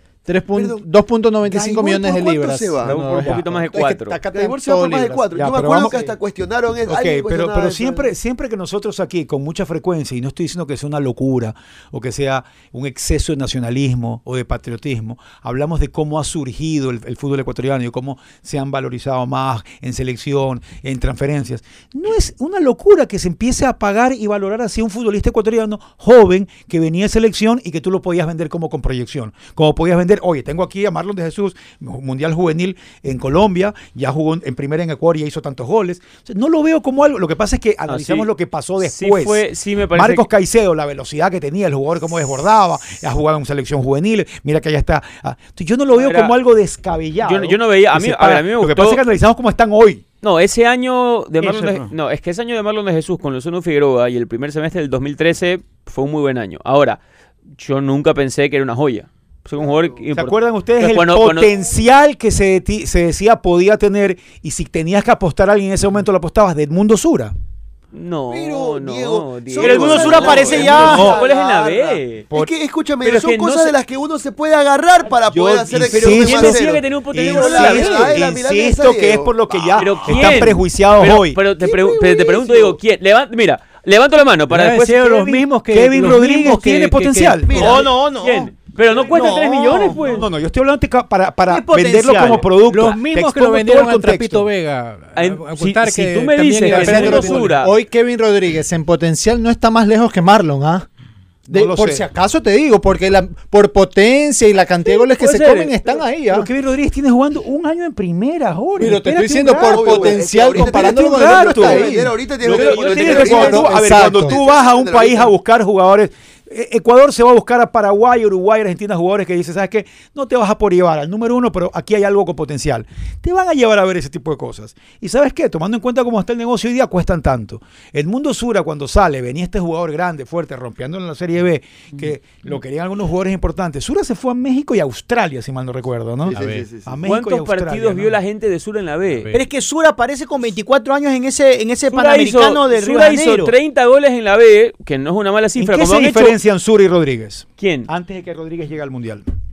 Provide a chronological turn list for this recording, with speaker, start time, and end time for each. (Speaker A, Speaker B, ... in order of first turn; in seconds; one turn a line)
Speaker A: 0.3-5.5
Speaker B: 0.6-0.8
Speaker B: 1.5-2.9
Speaker C: 2.9-4.2
Speaker D: 3.1-3.5
Speaker B: 4.3-8.1
Speaker D: 5.3-6.1
Speaker D: 6.9-50.0
Speaker C: 37.9-38.3
Speaker C: 38.8-40.3
Speaker C: 45.9-46.4
Speaker C: 47.2-49.0
Speaker C: 50.2-57.0
Speaker E: 51.4-51.9
Speaker C: 57.6-61.5
Speaker D: 60.1-67.3
Speaker C: 67.9-72.3
Speaker B: 68.3-80.5
Speaker E: 69.6-71.2
Speaker D: 70.5-71.2
Speaker C: 73.0-73.7
Speaker D: 75.3-81.4
Speaker C: 75.7-78.2
Speaker C: 79.8-85.2
Speaker B: 81.6-82.8
Speaker F: 84.5-87.6
Speaker D: 85.0-87.8
Speaker B: 87.4-87.9
Speaker E: 87.5-90.1
Speaker C: 88.1-90.3
Speaker D: 89.9-94.5
Speaker E: 91.5-92.5
Speaker F: 92.6-97.6
Speaker C: 95.2-97.7
Speaker A: 96.7-100.9
Speaker D: 101.5-102.1
Speaker A: 101.5-106.5
Speaker C: 104.9-105.8
Speaker D: 106.3-138.2
Speaker A: 108.8-112.2
Speaker B: 109.7-115.4
Speaker C: 112.5-113.7
Speaker A: 113.2-114.4
Speaker B: 136.3-137.0
Speaker F: 136.3-136.7
Speaker C: 137.1-139.3
Speaker F: 139.1-139.5
Speaker E: 139.3-143.5
Speaker C: 141.9-146.4
Speaker D: 145.6-149.3
Speaker C: 147.6-147.9